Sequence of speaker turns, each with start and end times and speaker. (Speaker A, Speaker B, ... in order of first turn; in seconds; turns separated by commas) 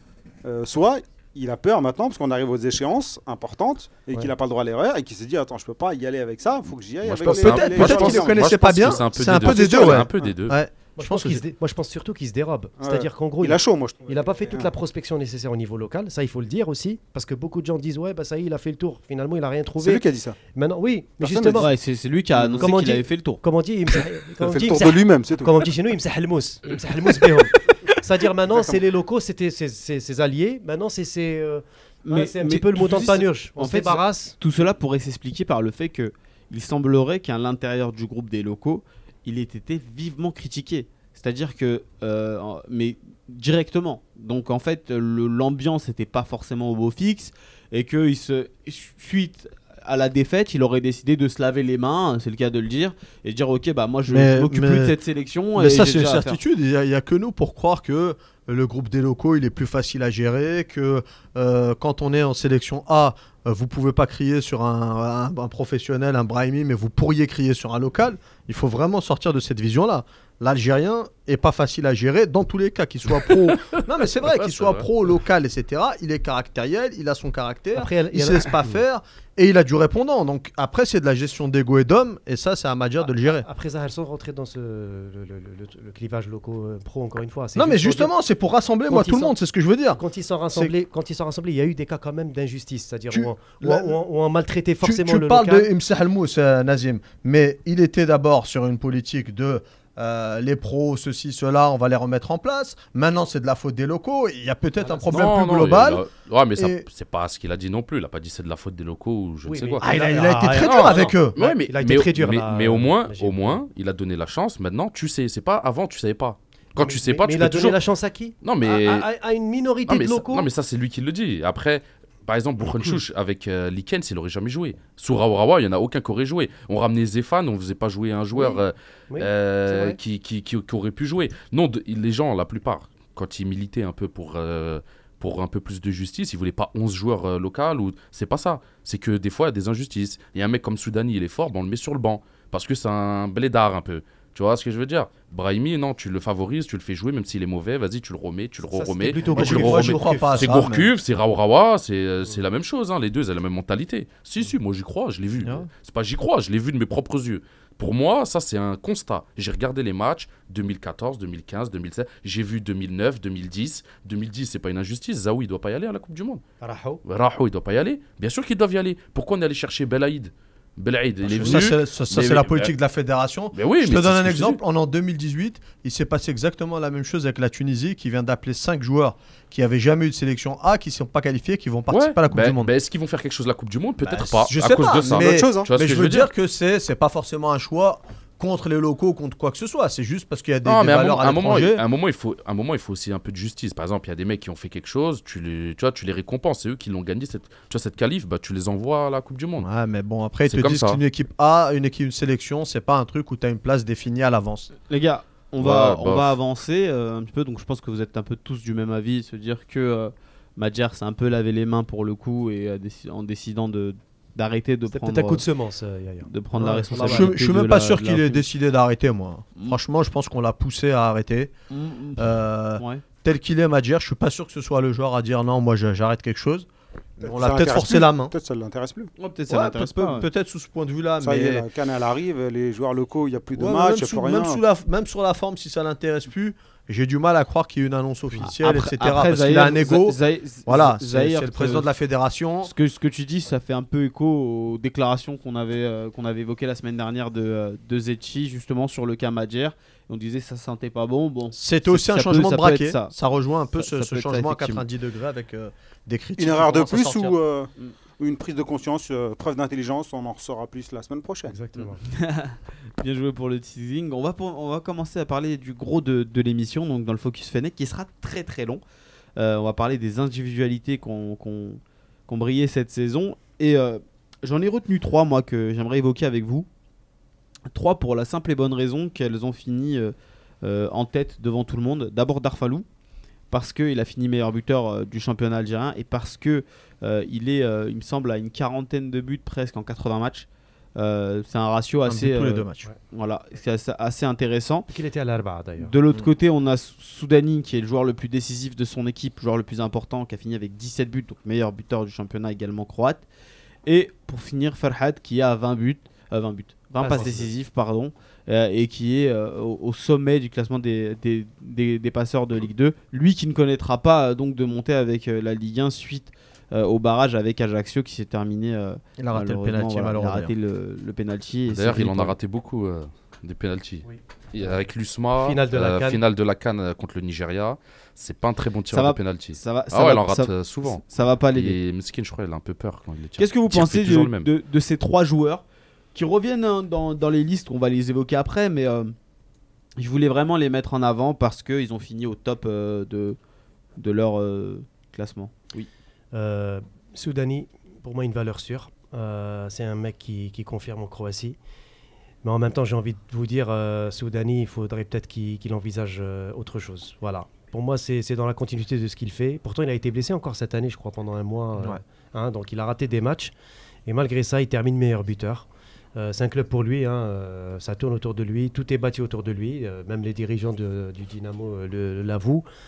Speaker A: 0.4-10.3, Speaker B: 7.0-10.6, Speaker C: 7.2-11.4, Speaker D: 11.0-20.0, Speaker A: 12.8-14.7, Speaker A: 19.8-20.4, Speaker D: 20.5-21.7, Speaker A: 21.2-21.7, Speaker E: 21.6-23.4, Speaker A: 22.3-22.7, Speaker D: 22.6-34.4, Speaker A: 24.4-25.6, Speaker A: 28.5-28.8, Speaker E: 32.0-56.4, Speaker C: 54.1-55.0, Speaker C: 55.6-83.5, Speaker B: 74.3-74.9, Speaker D: 77.8-78.8, Speaker D: 83.0-88.1, Speaker C: 87.5-90.0, Speaker D: 88.9-89.3, Speaker D: 90.0-95.7, Speaker C: 93.1-94.0, Speaker C: 94.8-106.1, Speaker D: 104.8-105.2, Speaker B: 105.1-109.9, Speaker C: 106.6-106.8, Speaker D: 109.5-113.6, Speaker C: 109.8-111.4, Speaker B: 110.5-117.8, Speaker D: 116.8-120.5, Speaker B: 118.4-119.1, Speaker B: 119.9-166.4, Speaker D: 128.3-130.0, Speaker D: 148.7-150.5, Speaker C: 149.3-150.9, Speaker C: 155.4-155.7, Speaker D: 166.6-167.0, Speaker B: 167.1-172.7, Speaker C: 171.2-182.7, Speaker B: 173.5-174.6, Speaker B: 181.9-186.3, Speaker C: 184.0-191.8, Speaker A: 184.9-185.7, Speaker B: 190.7-199.7, Speaker C: 199.6-204.7, Speaker B: 200.5-201.0, Speaker E: 204.9-215.5, Speaker B: 205.6-206.3, Speaker D: 214.9-217.3, Speaker E: 216.3-218.4, Speaker C: 216.6-221.5, Speaker E: 221.7-223.0, Speaker C: 222.2-226.7, Speaker C: 227.2-228.3, Speaker A: 227.2-229.1, Speaker E: 229.2-230.3, Speaker C: 229.5-231.7, Speaker A: 231.2-234.6, Speaker C: 233.6-242.7, Speaker E: 238.4-241.9, Speaker E: 242.6-253.2, Speaker C: 251.5-257.4, Speaker E: 253.8-254.8, Speaker A: 256.4-261.6, Speaker D: 261.5-262.0, Speaker E: 261.8-268.8, Speaker E: 269.4-276.7, Speaker E: 277.7-282.9, Speaker E: 283.5-294.9, Speaker C: 292.1-292.9, Speaker D: 294.9-295.9, Speaker E: 295.8-303.2, Speaker E: 303.9-322.4, Speaker D: 307.0-307.5, Speaker C: 319.2-320.5, Speaker B: 321.7-334.5, Speaker D: 325.4-326.2, Speaker E: 328.9-331.8, Speaker E: 333.4-335.6, Speaker E: 336.1-339.1, Speaker E: 340.0-343.4, Speaker E: 344.0-345.9, Speaker D: 346.3-351.6, Speaker D: 352.4-363.5, Speaker D: 364.1-372.6